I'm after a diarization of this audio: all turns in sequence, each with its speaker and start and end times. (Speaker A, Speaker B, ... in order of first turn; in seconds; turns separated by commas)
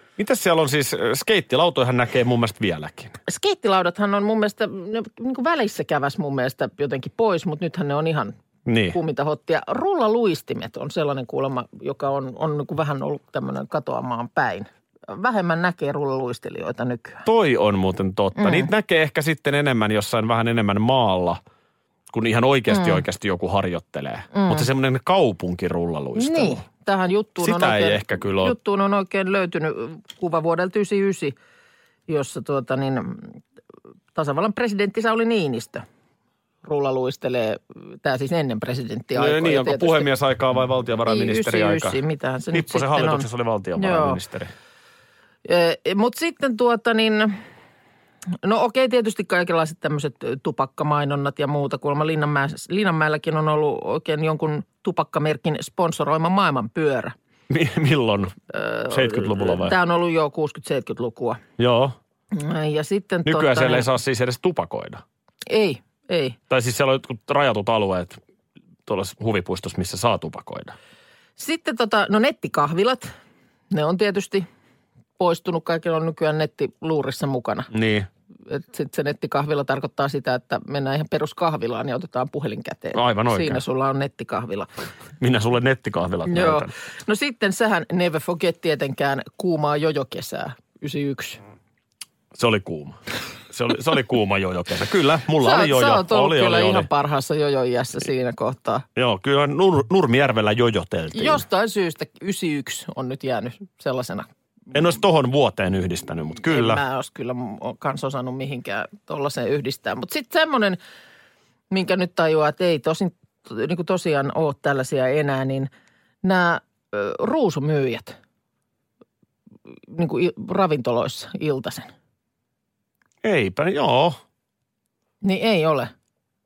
Speaker A: 0.2-3.1, Speaker B: 3.3-8.3, Speaker A: 8.7-9.0, Speaker B: 8.9-17.2, Speaker A: 17.2-21.4, Speaker B: 18.4-18.7, Speaker A: 22.1-26.6, Speaker B: 22.7-23.0, Speaker B: 24.3-24.7, Speaker B: 26.1-31.4, Speaker A: 27.4-28.6, Speaker B: 32.1-33.4, Speaker B: 34.1-35.8, Speaker B: 36.6-40.1, Speaker A: 39.1-42.0, Speaker B: 41.0-44.2, Speaker A: 42.5-44.5, Speaker B: 45.4-47.4, Speaker B: 48.4-57.1, Speaker A: 57.5-58.3, Speaker B: 58.5-61.4, Speaker A: 58.9-59.8, Speaker A: 61.6-62.0, Speaker B: 62.3-63.9, Speaker A: 63.2-65.0, Speaker B: 65.5-66.4, Speaker A: 66.5-68.2, Speaker A: 68.8-70.7, Speaker B: 71.4-73.1, Speaker B: 73.7-74.5, Speaker B: 75.2-77.7, Speaker A: 77.7-78.1, Speaker B: 78.5-84.7, Speaker A: 82.9-83.6, Speaker A: 85.2-86.7, Speaker B: 86.2-91.4, Speaker A: 92.3-93.0, Speaker A: 93.5-96.9, Speaker B: 95.4-98.8, Speaker A: 99.0-101.4, Speaker B: 101.1-104.3, Speaker A: 104.7-106.8, Speaker B: 106.5-110.8, Speaker B: 111.7-115.7, Speaker B: 116.2-118.2, Speaker B: 119.9-121.9, Speaker A: 123.2-124.2, Speaker B: 125.2-125.9